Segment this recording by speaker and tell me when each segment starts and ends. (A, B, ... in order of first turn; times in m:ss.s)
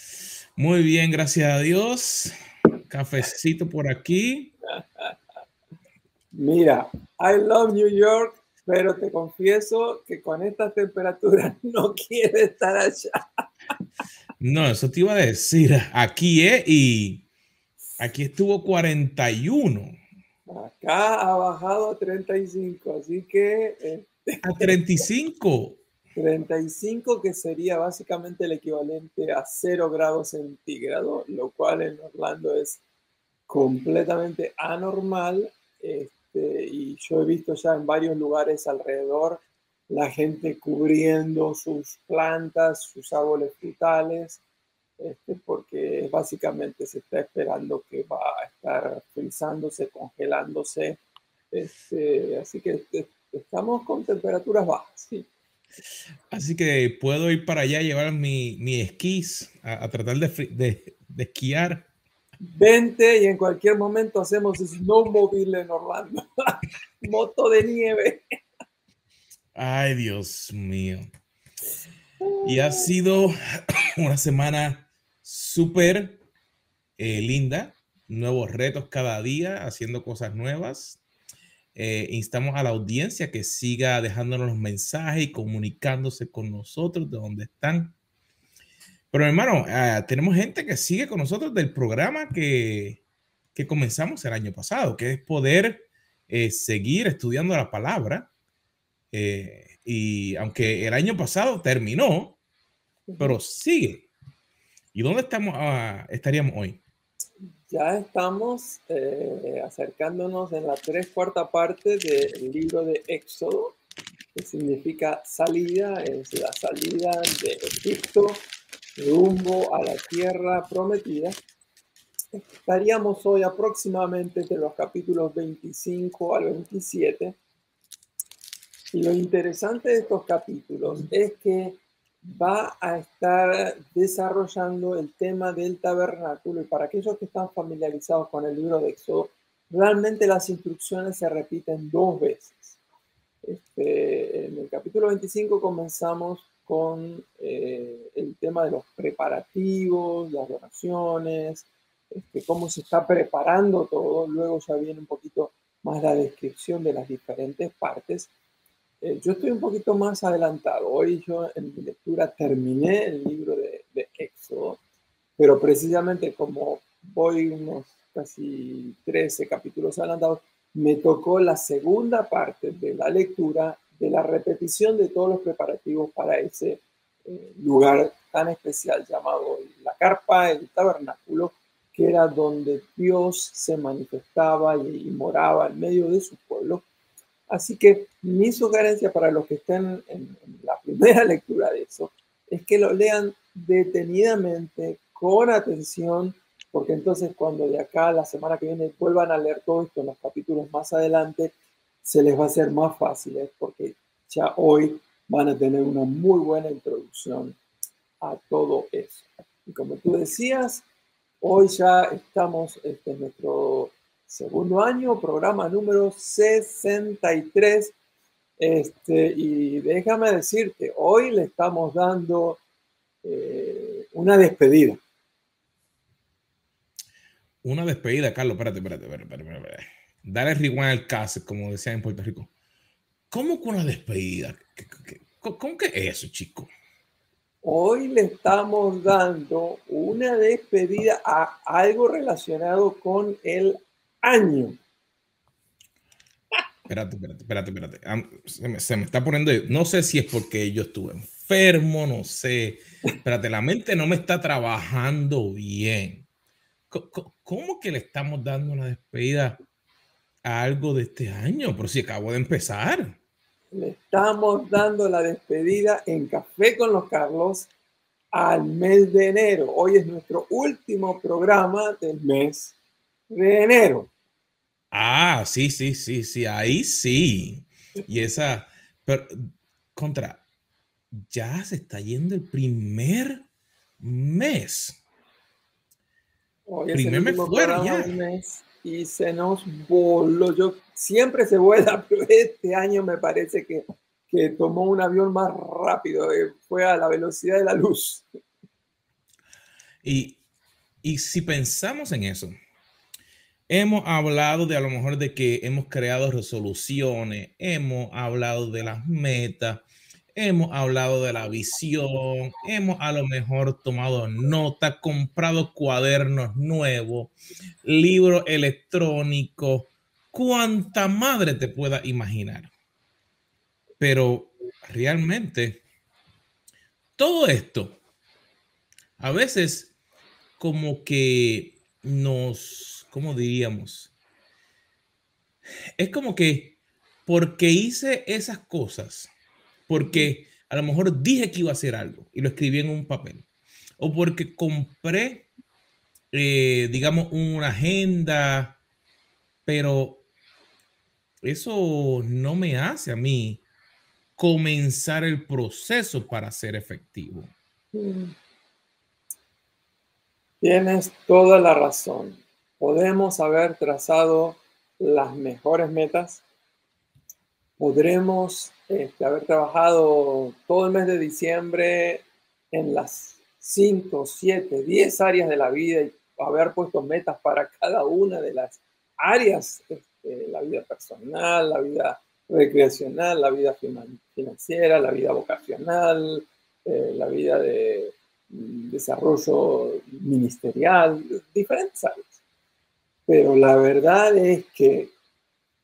0:00.6-0:02.3 A
0:02.9-0:04.5 A
0:04.7-0:05.1 B
0:06.3-0:13.4 B
0:14.4-0:17.2 A
0:18.0-0:20.0 A
0:20.5-0:24.8 B
0:24.4-0:25.8 A
0:26.2-0:32.8 B
0:33.5-0:44.4 B
0:45.0-0:51.0 B
0:51.5-0:55.3 B
0:56.3-1:01.9 A
1:02.4-1:08.2 B
1:09.6-1:11.1 A
1:12.2-1:12.9 B
1:12.4-1:16.2 A
1:17.0-1:21.0 A
1:21.8-1:28.0 A
1:29.1-1:33.0 A
1:33.6-1:38.3 A
1:39.1-1:42.4 A
1:43.1-1:43.4 B
1:43.2-1:44.1 A
1:44.9-1:46.8 A
1:47.7-1:53.8 B
1:54.4-2:01.4 B
2:02.3-2:07.4 B
2:08.9-2:22.8 B
2:23.4-2:38.3 B
2:39.0-2:44.8 B
2:45.4-3:06.8 B
3:07.5-3:27.6 B
3:28.2-3:30.8 B
3:31.4-3:38.0 B
3:38.6-3:42.6 B
3:43.2-3:45.0 B
3:47.6-3:52.5 A
3:53.3-3:56.7 A
3:57.6-4:04.8 B
4:06.9-4:16.3 A
4:16.9-4:19.6 A
4:20.4-4:23.2 A
4:23.7-4:27.7 B
4:28.3-4:32.8 B
4:33.3-4:34.1 B
4:34.9-4:40.4 A
4:41.1-4:43.4 A
4:44.0-4:45.0 A
4:46.7-4:58.2 B
4:46.9-4:48.2 A
5:00.0-5:00.4 A
5:01.0-5:02.6 A
5:03.7-5:09.8 A
5:10.4-5:17.3 A
5:17.8-5:22.7 A
5:24.0-5:25.8 A
5:27.2-5:28.0 A
5:29.2-5:29.9 A
5:30.6-5:34.1 A
5:36.0-5:39.3 A
5:39.9-5:43.5 A
5:40.0-5:40.3 B
5:44.0-5:45.5 A
5:46.3-5:48.8 A
5:49.7-5:50.2 A
5:51.4-5:53.6 A
5:54.4-5:57.5 A
5:57.9-5:58.4 B
6:00.6-6:06.4 B
6:07.8-6:32.4 B
6:33.3-6:35.1 B